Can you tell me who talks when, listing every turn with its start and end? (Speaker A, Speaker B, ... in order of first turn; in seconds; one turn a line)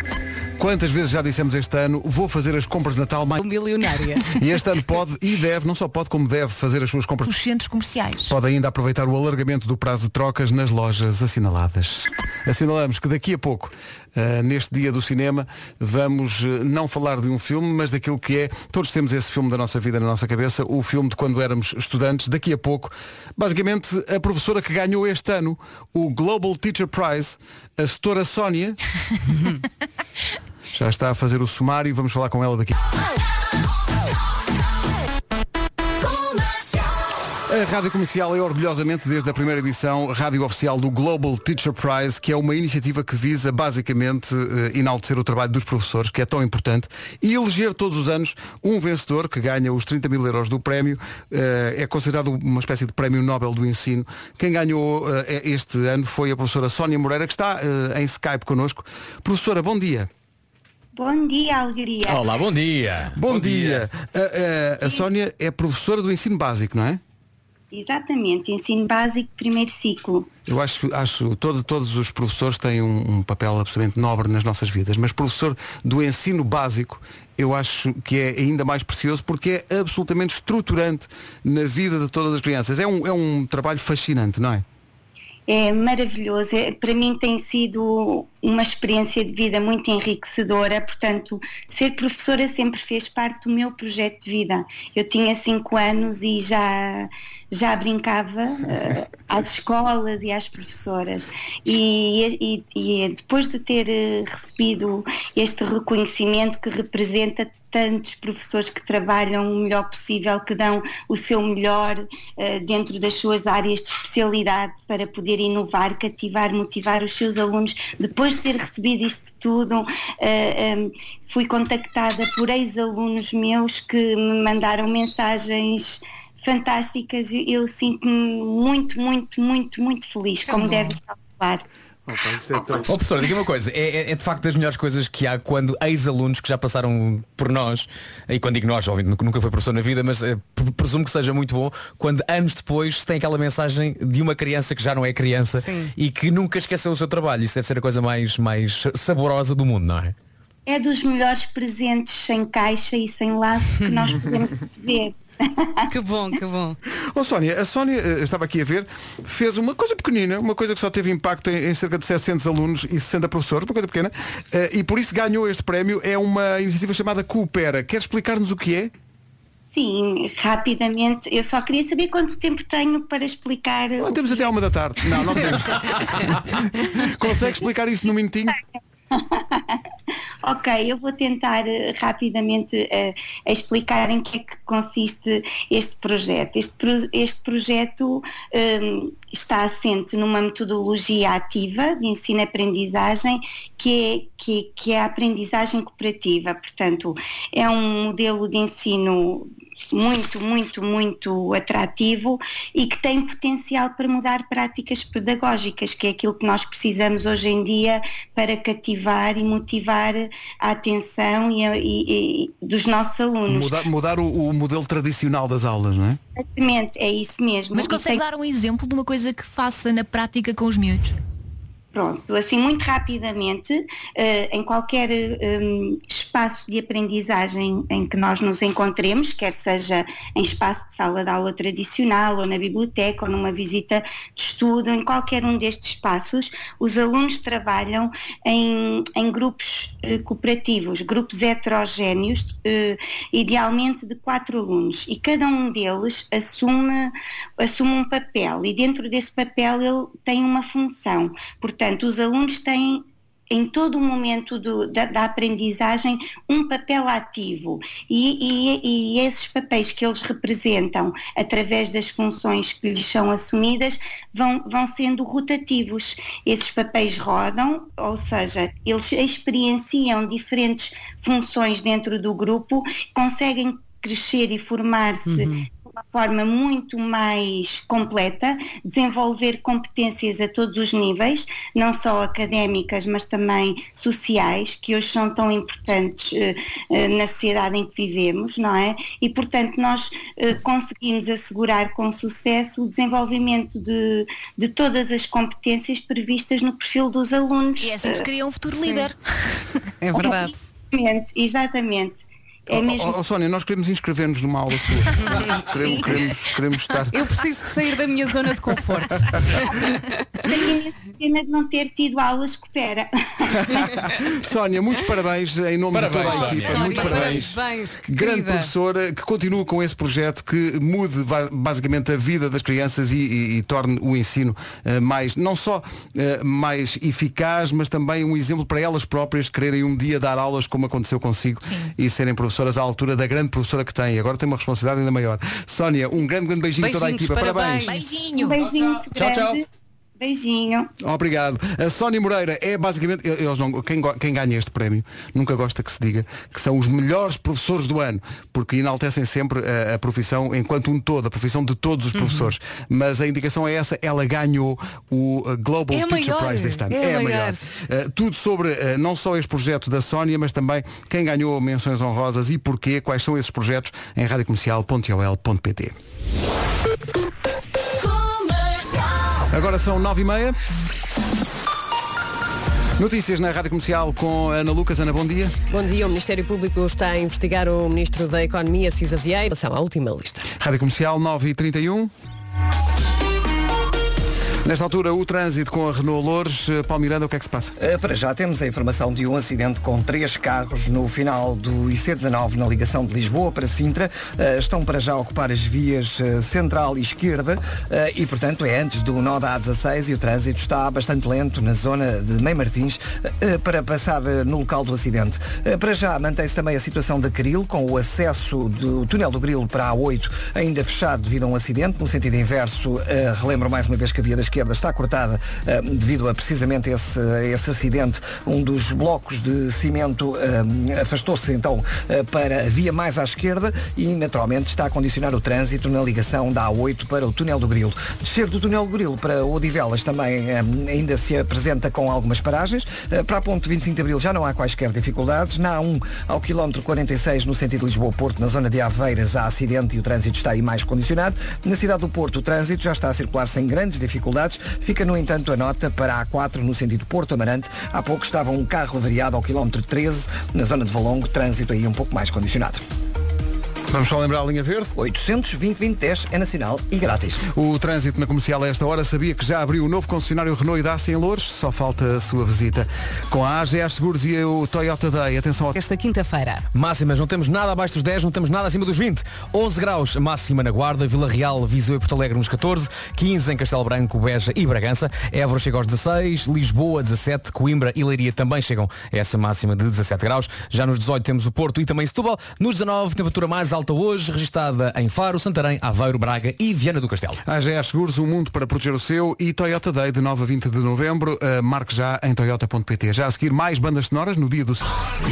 Speaker A: 0.6-3.4
Speaker B: 3.4-4.3
Speaker A: 4.2-7.3
Speaker C: 7.2-8.3
Speaker A: 8.2-28.8
Speaker A: 30.7-32.8
Speaker A: 37.5-60.1
Speaker D: 60.9-62.2
Speaker E: 62.0-63.7
Speaker A: 63.1-67.0
Speaker D: 67.7-70.3
Speaker A: 70.5-84.6
Speaker D: 85.5-131.6
Speaker A: 132.1-132.9
Speaker E: 132.9-150.1
Speaker B: 145.6-145.9
Speaker D: 150.7-155.8
Speaker B: 155.9-156.8
Speaker A: 157.1-168.9
Speaker D: 169.7-174.5
Speaker A: 174.0-178.6
Speaker D: 179.1-179.8
Speaker D: 180.4-213.8
Speaker A: 213.5-216.2
Speaker D: 216.3-218.2
Speaker C: 217.7-221.1
Speaker D: 221.9-298.2
Speaker B: 275.2-275.6
Speaker C: 297.8-299.2
Speaker B: 300.0-300.6
Speaker D: 300.1-303.1
Speaker A: 302.7-307.1
Speaker B: 307.1-310.0
Speaker D: 310.4-314.0
Speaker A: 313.6-338.0
Speaker E: 315.9-317.0
Speaker B: 316.3-318.7
Speaker C: 316.8-317.4
Speaker B: 336.8-338.0
Speaker C: 337.8-338.6
Speaker D: 338.3-339.6
Speaker E: 339.1-339.6
Speaker D: 340.2-340.9
Speaker A: 341.0-365.9
Speaker B: 352.1-352.5
Speaker B: 355.9-357.7
Speaker A: 369.5-370.6
Speaker A: 373.0-375.6
Speaker F: 375.7-380.4
Speaker A: 380.6-382.1
Speaker A: 384.6-387.8
Speaker G: 387.8-452.8
Speaker A: 453.9-454.9
Speaker G: 454.9-457.4
Speaker A: 457.5-465.8
Speaker B: 465.8-466.6
Speaker E: 466.7-487.4
Speaker A: 487.4-495.0